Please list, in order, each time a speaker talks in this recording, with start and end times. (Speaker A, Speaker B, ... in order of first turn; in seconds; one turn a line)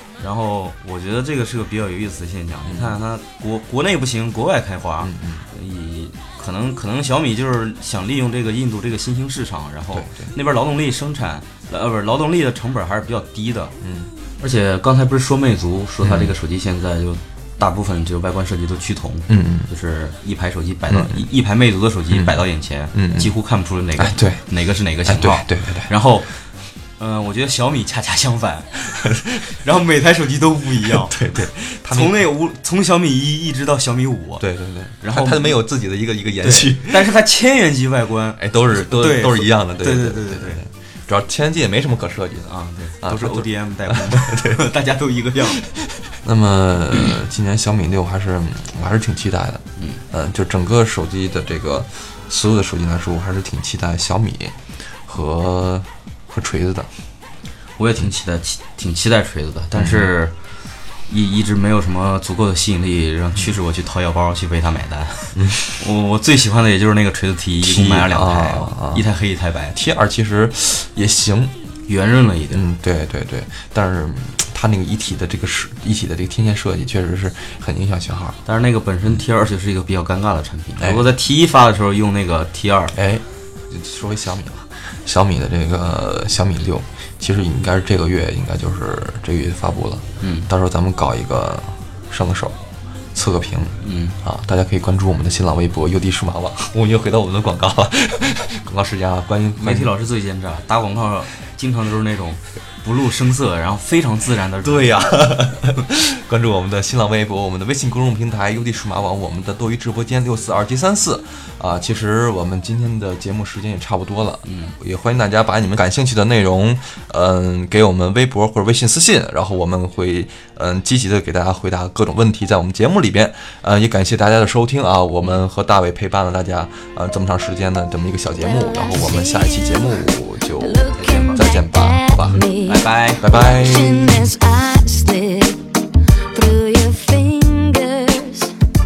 Speaker A: 0.2-13.8
Speaker B: 2.6-3.0
Speaker B: 5.0-5.5
Speaker B: 9.9-10.3
Speaker B: 13.8-14.1
Speaker A: 14.4-34.4
Speaker B: 16.0-16.3
Speaker B: 19.3-19.7
Speaker B: 20.9-21.3
Speaker B: 22.9-23.3
Speaker B: 24.0-24.5
Speaker B: 25.0-25.9
Speaker B: 30.9-32.2
Speaker B: 34.4-37.1
Speaker A: 35.0-35.6
Speaker A: 36.4-40.6
Speaker B: 38.4-44.6
Speaker A: 42.5-45.7
Speaker B: 46.0-56.9
Speaker A: 49.8-50.0
Speaker A: 57.8-60.4
Speaker B: 59.8-60.1
Speaker A: 61.1-69.8
Speaker B: 67.6-69.0
Speaker B: 69.7-71.6
Speaker A: 71.8-72.7
Speaker B: 72.5-78.4
Speaker A: 78.4-83.0
Speaker B: 80.8-81.1
Speaker B: 82.9-92.6
Speaker A: 90.2-90.5
Speaker B: 93.1-99.9
Speaker A: 93.8-94.2
Speaker A: 99.6-105.0
Speaker B: 104.6-132.4
Speaker A: 114.4-114.8
Speaker C: 128.5-129.9
Speaker C: 130.7-138.6
Speaker A: 130.9-131.4
Speaker A: 132.5-133.4
Speaker B: 133.2-134.3